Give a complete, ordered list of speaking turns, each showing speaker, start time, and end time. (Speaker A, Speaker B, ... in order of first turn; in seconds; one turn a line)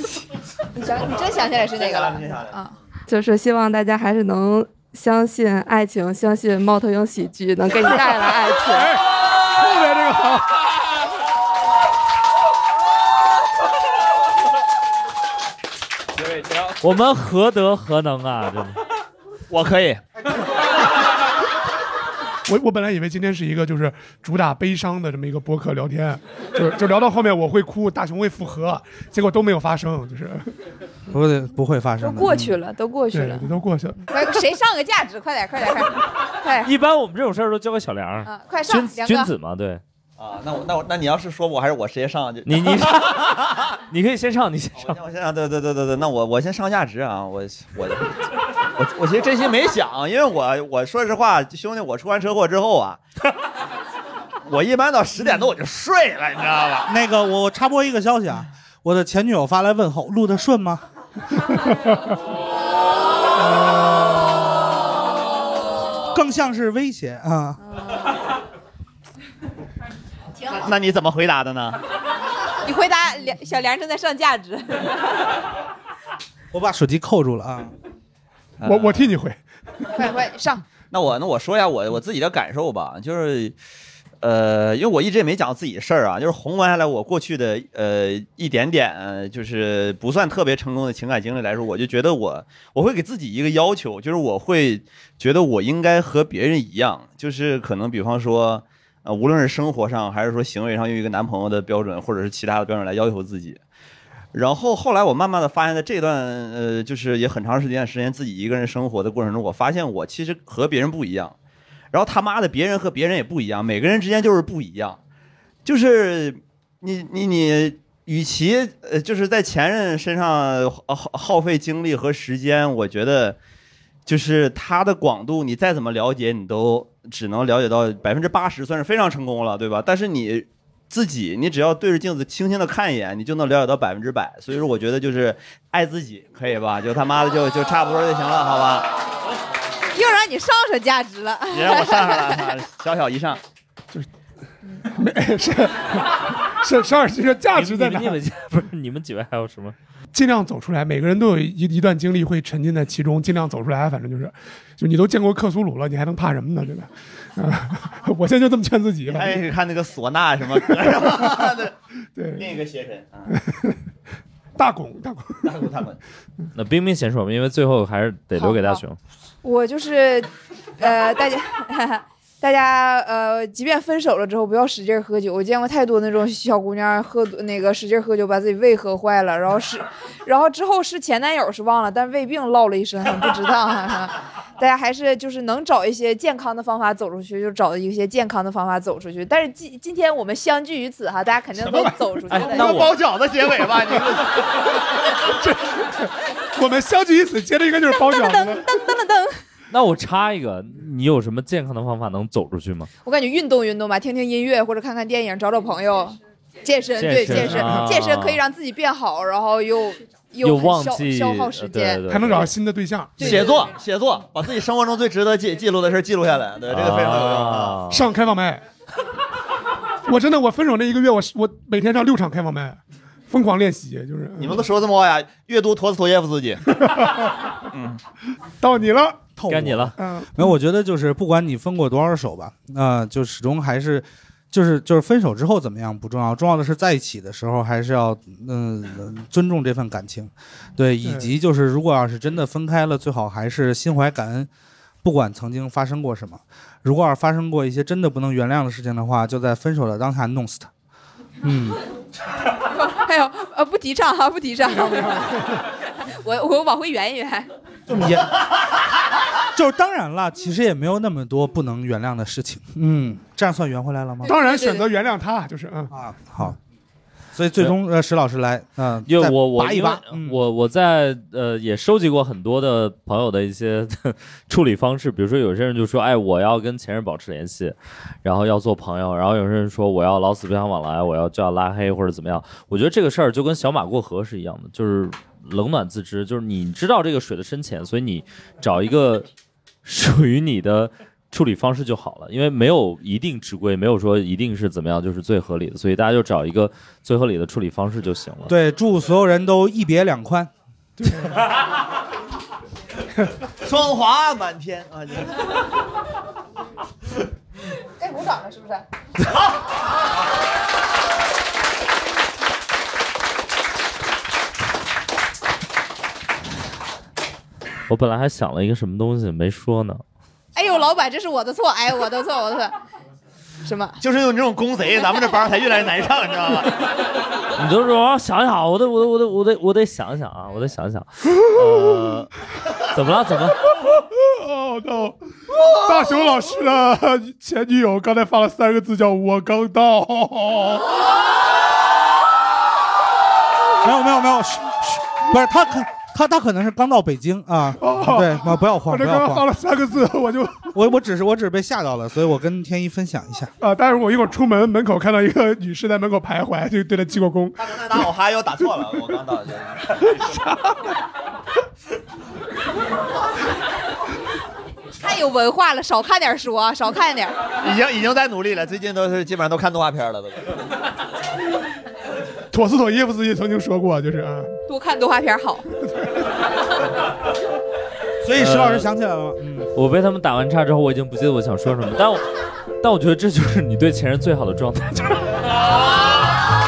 Speaker A: 0.8-2.7
Speaker B: 1.4-2.6
Speaker C: 3.1-8.9
Speaker D: 7.9-10.8
Speaker B: 16.2-16.7
Speaker E: 16.8-18.8
Speaker B: 19.5-20.0
Speaker D: 22.5-30.5
Speaker F: 31.1-32.6
Speaker A: 32.0-33.5
Speaker D: 33.1-34.1
Speaker A: 34.1-36.7
Speaker E: 36.6-39.8
Speaker A: 38.2-39.3
Speaker B: 40.2-43.6
Speaker E: 42.5-45.0
Speaker B: 44.8-48.2
Speaker B: 48.8-53.0
Speaker B: 54.5-56.9
Speaker F: 56.9-60.8
Speaker F: 66.1-67.6
Speaker B: 70.5-71.8
Speaker A: 72.6-75.1
Speaker F: 76.5-77.7
Speaker B: 78.6-79.2
Speaker D: 78.6-79.4
Speaker A: 80.0-80.6
Speaker B: 80.9-83.5
Speaker B: 84.2-103.6
Speaker B: 104.3-111.3
Speaker B: 111.9-115.0
Speaker B: 115.7-123.4
Speaker B: 124.1-138.9
Speaker A: 139.9-142.5
Speaker B: 141.5-143.4
Speaker D: 144.8-148.2
Speaker E: 147.5-149.8
Speaker D: 150.1-159.4
Speaker B: 159.1-161.8
Speaker D: 162.2-162.5
Speaker B: 162.3-163.3
Speaker D: 163.3-163.8
Speaker D: 164.6-165.5
Speaker B: 165.4-166.0
Speaker E: 166.6-169.0
Speaker A: 168.4-168.8
Speaker A: 169.4-192.9
Speaker E: 192.3-193.0
Speaker B: 192.3-194.7
Speaker D: 195.1-198.7
Speaker A: 198.0-199.3
Speaker E: 199.7-202.9
Speaker A: 203.0-212.0
Speaker E: 207.0-208.4
Speaker D: 207.3-208.0
Speaker E: 210.4-212.5
Speaker D: 212.1-213.6
Speaker A: 213.2-213.7
Speaker B: 213.2-217.8
Speaker E: 216.7-218.1
Speaker D: 217.9-218.6
Speaker D: 220.1-224.6
Speaker B: 224.4-226.9
Speaker D: 226.7-227.3
Speaker B: 227.7-228.0
Speaker D: 228.6-229.3
Speaker F: 229.4-244.5
Speaker E: 229.5-229.9
Speaker D: 230.0-230.5
Speaker D: 241.0-241.3
Speaker F: 245.0-250.7
Speaker F: 251.4-251.8
Speaker A: 252.7-257.5
Speaker D: 255.2-255.6
Speaker F: 257.9-258.4
Speaker F: 259.5-264.3
Speaker A: 264.2-264.9
Speaker D: 264.3-265.9
Speaker F: 265.9-266.6
Speaker F: 267.4-270.4
Speaker E: 269.1-289.3
Speaker E: 289.8-298.5
Speaker F: 298.5-300.5
Speaker D: 301.0-301.4
Speaker B: 303.6-305.4
Speaker A: 308.0-308.9
Speaker E: 317.9-320.0
Speaker A: 320.6-322.7
Speaker A: 323.6-324.0
Speaker B: 324.0-326.8
Speaker E: 327.6-333.6
Speaker D: 333.9-340.9
Speaker F: 343.8-349.5
Speaker D: 347.8-350.7
Speaker F: 350.7-353.5
Speaker D: 353.6-358.0
Speaker B: 357.6-360.3
Speaker D: 360.0-361.0
Speaker A: 365.0-367.4
Speaker B: 367.6-370.5
Speaker D: 372.5-374.6
Speaker A: 374.7-375.7
Speaker F: 378.2-379.7
Speaker E: 378.4-378.9
Speaker E: 379.8-382.3
Speaker E: 382.8-385.6